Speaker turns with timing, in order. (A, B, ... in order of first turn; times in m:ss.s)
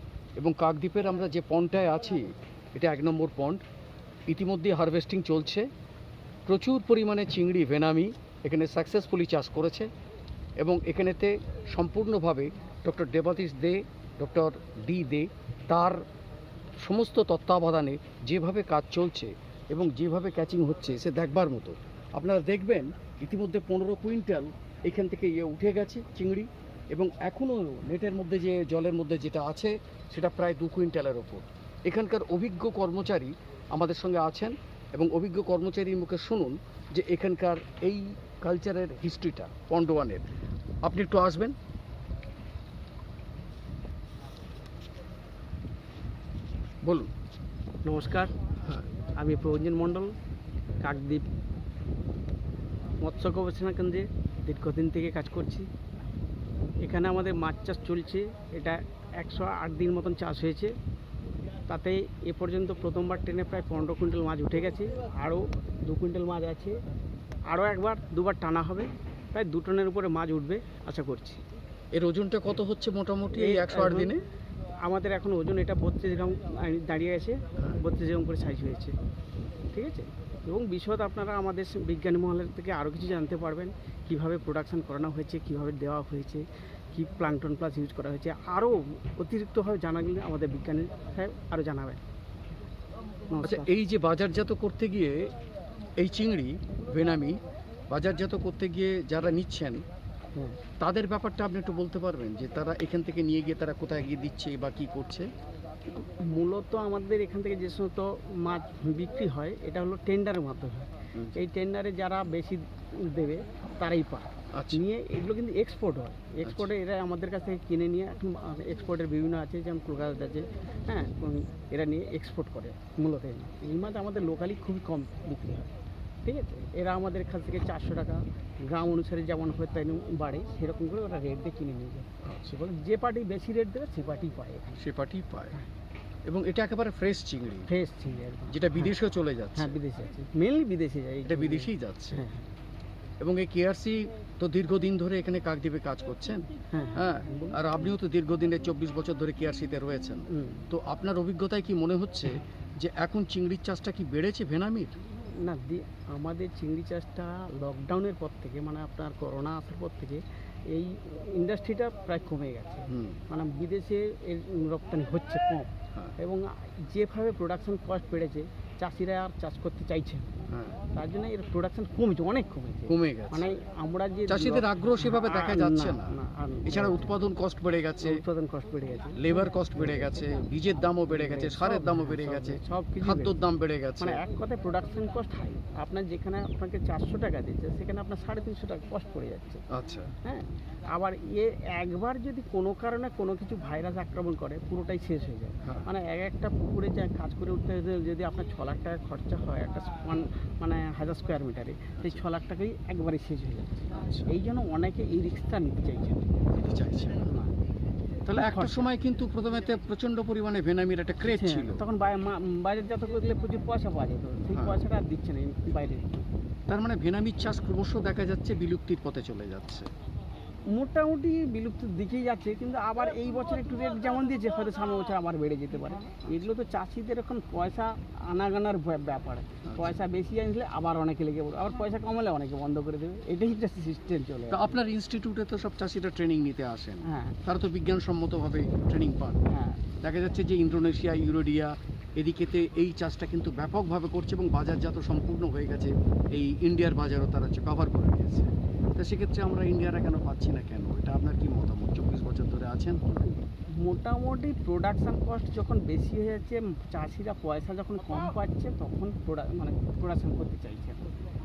0:00.4-0:03.6 A
0:04.3-0:05.7 A
0:06.5-0:09.9 A
0:10.6-0:16.0 A
0:16.8-0:40.2 A
0:40.8-0:41.6 A
0:46.8-0:47.1 A
0:47.8-0:48.4 B
0:49.0-0:50.2 B
0:50.8-0:51.3 B
0:53.0-0:55.7 B
0:56.8-1:00.8 B
1:01.7-1:06.8 B
1:07.5-1:11.4 B
1:11.9-1:14.2 A
1:13.3-1:14.2 B
1:14.8-1:19.0 B
1:19.7-1:32.0 B
1:33.3-1:33.7 B
1:33.4-1:35.3 A
1:36.0-1:39.8 A
1:40.8-1:45.3 A
1:45.9-2:05.7 B
1:54.5-1:54.8 A
1:56.4-1:56.7 A
2:06.2-2:14.8 B
2:12.2-2:12.5 A
2:14.8-2:15.6 A
2:16.3-2:17.7 A
2:17.7-2:18.9 B
2:18.5-2:19.7 A
2:19.6-2:22.4 B
2:21.3-2:22.2 A
2:23.2-2:34.9 A
2:26.7-2:27.6 B
2:30.3-2:30.7 B
2:35.4-2:50.3 B
2:42.9-2:43.2 A
2:50.5-2:50.8 A
2:50.9-2:57.1 B
2:52.9-2:53.5 A
2:54.3-2:58.2 A
2:58.0-3:00.2 B
2:59.2-3:04.2 A
3:00.9-3:03.4 B
3:04.0-3:09.6 B
3:09.7-3:10.1 A
3:10.2-3:26.4 B
3:23.9-3:24.3 A
3:26.5-3:27.3 A
3:27.2-3:27.5 B
3:28.3-3:31.8 A
3:28.3-3:28.9 B
3:31.2-3:36.2 B
3:34.5-3:34.8 A
3:36.7-3:39.9 A
3:40.7-3:54.8 B
3:49.7-3:50.0 A
3:54.5-3:59.4 A
3:57.0-3:57.4 B
3:59.5-3:59.8 B
4:00.0-4:13.3 A
4:13.2-4:21.1 B